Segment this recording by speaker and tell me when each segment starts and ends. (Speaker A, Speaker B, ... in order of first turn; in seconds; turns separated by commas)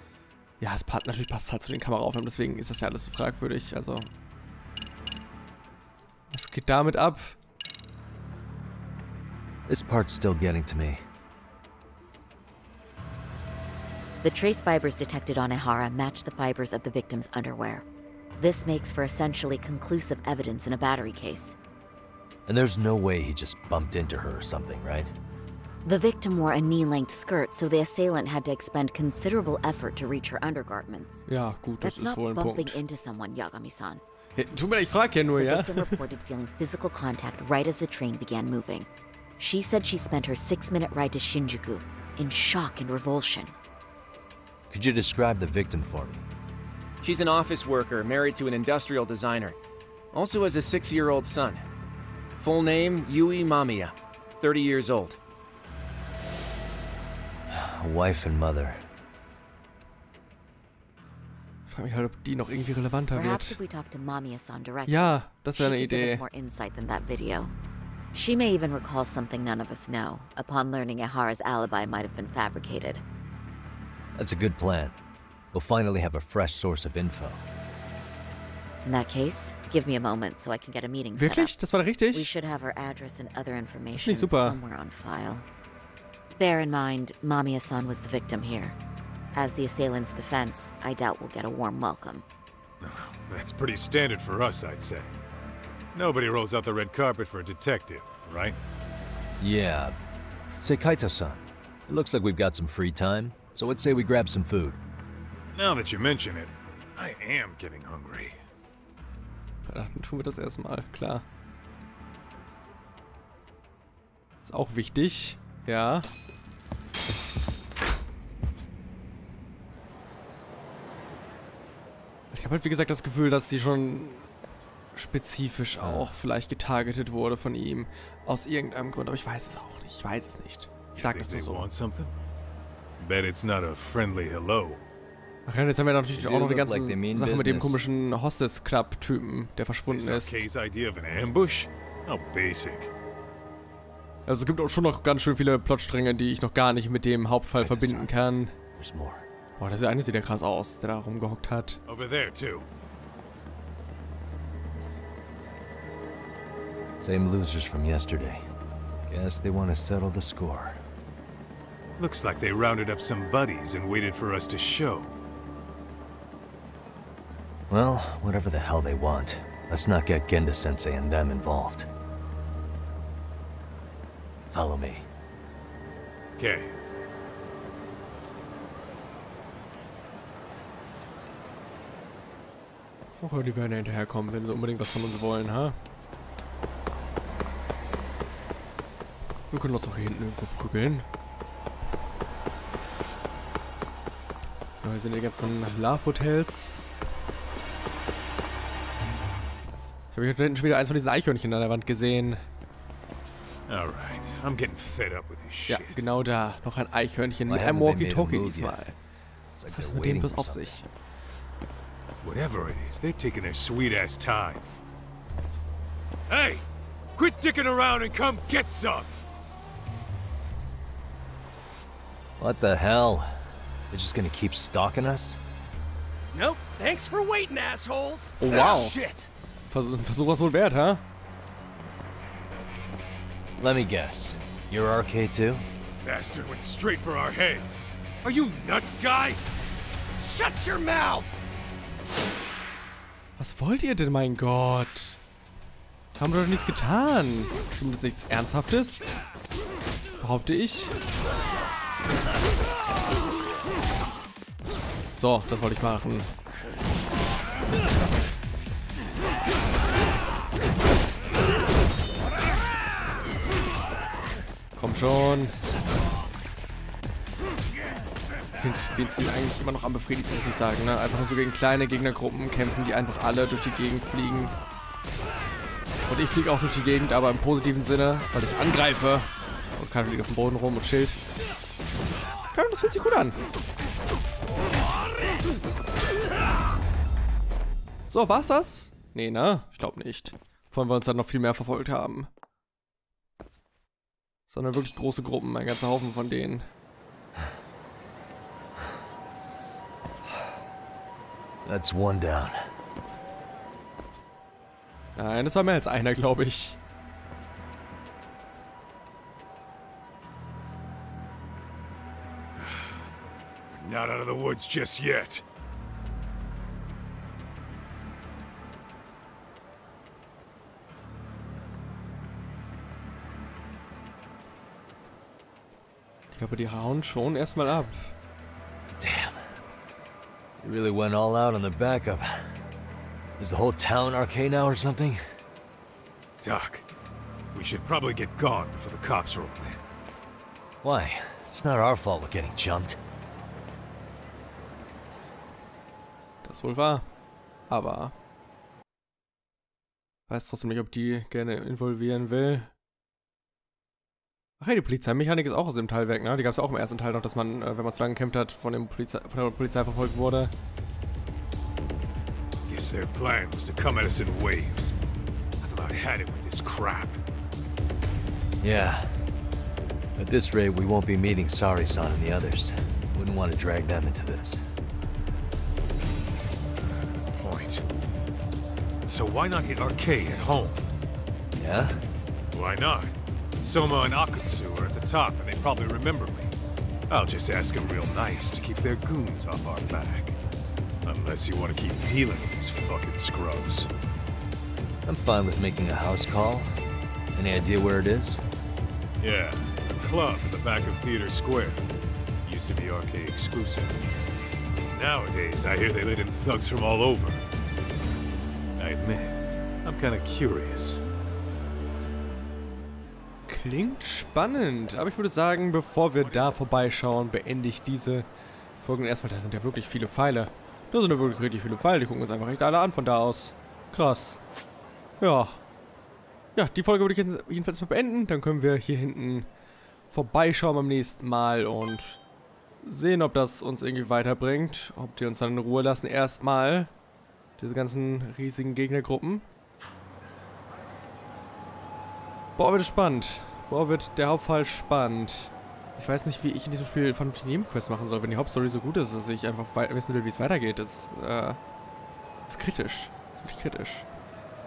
Speaker A: 0.6-4.1, Speaker A: 6.3-7.3, Speaker B: 9.7-11.0, Speaker C: 14.2-17.8, Speaker C: 18.4-21.6, Speaker B: 22.5-25.1, Speaker C: 25.8-31.2, Speaker A: 31.3-32.8, Speaker C: 31.8-34.0, Speaker A: 34.4-36.0, Speaker C: 35.4-43.5, Speaker B: 44.7-46.2, Speaker D: 47.0-49.6, Speaker D: 50.1-51.6, Speaker D: 52.4-55.2, Speaker B: 57.5-58.8, Speaker A: 61.7-63.6, Speaker C: 63.1-67.5, Speaker A: 64.9-66.2, Speaker C: 68.1-73.0, Speaker B: 74.2-75.0, Speaker B: 75.5-77.4, Speaker C: 78.8-81.5, Speaker A: 81.2-82.3, Speaker C: 82.1-85.5, Speaker A: 84.0-84.6, Speaker C: 86.3-88.8, Speaker C: 89.3-92.2, Speaker E: 92.8-95.1, Speaker E: 95.9-98.6, Speaker B: 99.4-100.0, Speaker B: 100.6-104.8, Speaker E: 105.5-108.4, Speaker A: 109.7-111.2, Speaker A: 114.4-116.1, Speaker A: 122.3-124.3, Speaker A: 124.9-131.7, Speaker B: 125.8-126.1, Speaker E: 130.9-132.1, Speaker E: 133.0-134.8, Speaker A: 135.4-140.4, Speaker B: 136.1-137.8, Speaker E: 139.9-142.9, Speaker A: 144.2-148.5, Speaker B: 147.6-148.1, Speaker B: 148.8-149.2, Speaker A: 149.6-151.8, Speaker E: 151.8-152.7, Speaker B: 157.0-158.5, Speaker B: 159.1-160.8, Speaker E: 162.0-165.1, Speaker B: 167.7-171.9, Speaker B: 174.5-175.1, Speaker E: 176.4-176.7, Speaker A: 183.2-185.8, Speaker A: 189.5-191.1, Speaker A: 194.8-196.8, Speaker A: 200.1-202.4, Speaker E: 203.7-206.0, Speaker A: 205.7-208.9, Speaker B: 207.5-208.8, Speaker B: 209.6-210.8, Speaker A: 209.7-210.9, Speaker E: 212.2-214.7, Speaker E: 216.3-219.1, Speaker B: 222.4-223.4, Speaker B: 223.9-225.4, Speaker D: 226.3-229.0, Speaker A: 228.4-228.9, Speaker E: 228.5-229.3, Speaker A: 229.7-231.0, Speaker B: 233.6-235.6, Speaker E: 236.0-239.4, Speaker D: 240.2-241.3, Speaker A: 243.4-245.2, Speaker A: 246.2-249.1, Speaker A: 250.2-250.9, Speaker A: 255.1-256.3, Speaker A: 264.8-265.6, Speaker A: 268.6-274.5, Speaker A: 276.1-281.2, Speaker A: 282.5-283.4, Speaker A: 288.1-292.3, Speaker A: 294.5-296.6, Speaker B: 301.6-302.6, Speaker A: 305.1-306.8, Speaker E: 312.6-313.0, Speaker E: 313.7-315.4, Speaker A: 326.3-328.1, Speaker B: 329.0-329.5, Speaker B: 330.6-332.5, Speaker B: 333.4-335.2, Speaker E: 336.4-336.9, Speaker E: 337.5-339.8, Speaker B: 340.8-343.0, Speaker A: 346.4-347.1, Speaker A: 347.7-348.1, Speaker A: 350.3-352.7, Speaker A: 354.6-360.5, Speaker E: 362.7-364.9, Speaker E: 365.6-367.2, Speaker B: 368.6-369.2, Speaker B: 370.1-374.6, Speaker E: 377.3-377.8, Speaker E: 379.1-380.8, Speaker B: 381.6-382.0, Speaker E: 382.5-386.5, Speaker E: 387.1-390.4, Speaker E: 391.0-393.9, Speaker B: 395.0-396.7, Speaker B: 397.3-398.4, Speaker E: 399.2-401.8, Speaker E: 402.4-404.0, Speaker E: 404.9-407.4, Speaker E: 408.8-411.0, Speaker A: 413.5-418.3, Speaker E: 416.1-416.6, Speaker A: 418.8-424.4, Speaker A: 425.2-425.6, Speaker A: 426.5-429.5, Speaker A: 430.1-432.2, Speaker A: 432.8-436.9, Speaker A: 437.6-439.4, Speaker A: 442.6-451.6, Speaker A: 452.5-454.1